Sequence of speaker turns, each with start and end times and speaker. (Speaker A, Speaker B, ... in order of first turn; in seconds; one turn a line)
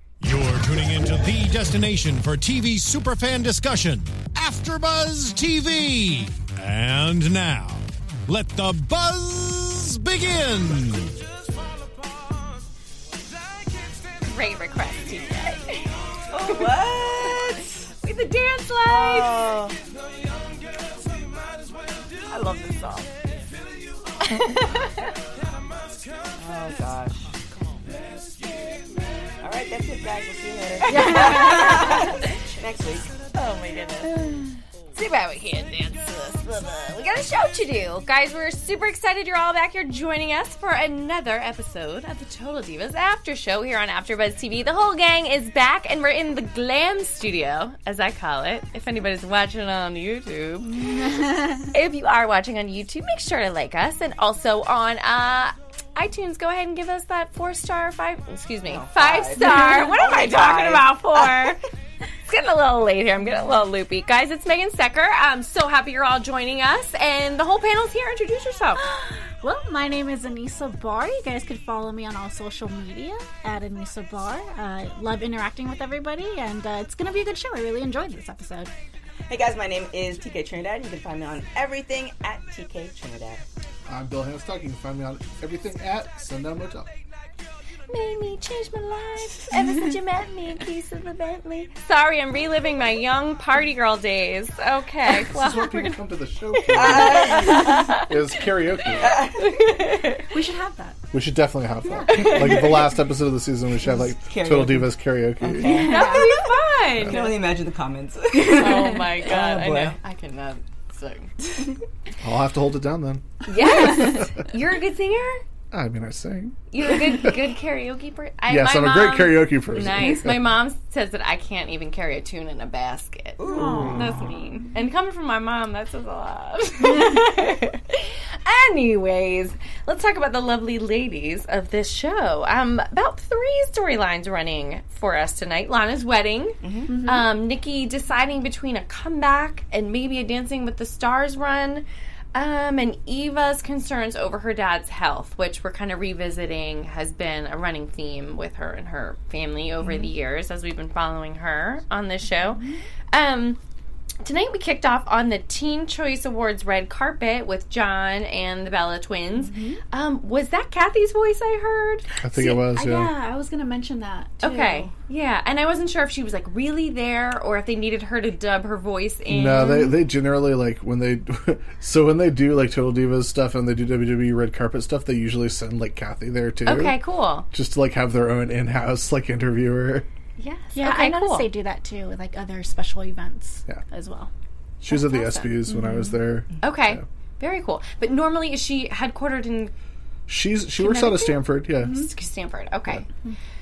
Speaker A: 0.2-11.3
Speaker B: 14.2-15.9
Speaker C: 16.3-17.9
Speaker B: 18.0-19.4
Speaker C: 18.9-19.8
Speaker C: 22.4-22.8
Speaker B: 22.8-23.1
Speaker B: 24.2-25.1
Speaker C: 26.3-27.2
Speaker C: 29.4-33.1
Speaker B: 30.8-32.2
Speaker D: 30.9-32.1
Speaker B: 33.3-34.1
Speaker D: 34.0-34.6
Speaker B: 34.9-50.9
Speaker D: 50.7-51.7
Speaker B: 51.7-61.6
Speaker C: 58.7-61.5
Speaker D: 59.4-59.8
Speaker B: 62.3-68.8
Speaker D: 68.8-78.7
Speaker C: 79.3-83.4
Speaker E: 83.8-86.9
Speaker B: 87.9-95.9
Speaker E: 95.2-99.2
Speaker B: 96.6-98.1
Speaker C: 96.7-97.9
Speaker D: 97.4-97.8
Speaker B: 98.8-100.3
Speaker C: 99.0-99.5
Speaker D: 100.3-101.0
Speaker E: 101.1-105.9
Speaker D: 101.8-102.5
Speaker B: 102.1-102.9
Speaker C: 104.0-106.4
Speaker D: 105.6-106.4
Speaker B: 105.9-107.3
Speaker C: 107.0-110.0
Speaker E: 107.0-107.3
Speaker D: 108.3-109.0
Speaker B: 108.5-111.3
Speaker E: 112.2-114.3
Speaker B: 113.5-115.4
Speaker D: 113.6-114.2
Speaker E: 115.7-117.4
Speaker B: 116.7-153.6
Speaker E: 118.5-120.5
Speaker C: 123.4-124.0
Speaker D: 123.5-124.2
Speaker E: 123.6-124.3
Speaker C: 136.6-136.9
Speaker D: 136.9-137.2
Speaker D: 152.5-152.8
Speaker B: 154.2-162.0
Speaker D: 159.4-159.8
Speaker E: 162.2-163.1
Speaker D: 162.3-164.9
Speaker B: 164.4-169.9
Speaker E: 169.3-177.0
Speaker D: 169.6-169.8
Speaker B: 176.7-177.5
Speaker E: 177.5-180.1
Speaker B: 180.4-181.5
Speaker D: 180.7-184.3
Speaker E: 184.8-187.0
Speaker B: 184.9-185.5
Speaker D: 185.7-186.2
Speaker B: 186.6-189.7
Speaker E: 190.3-192.1
Speaker B: 190.8-193.1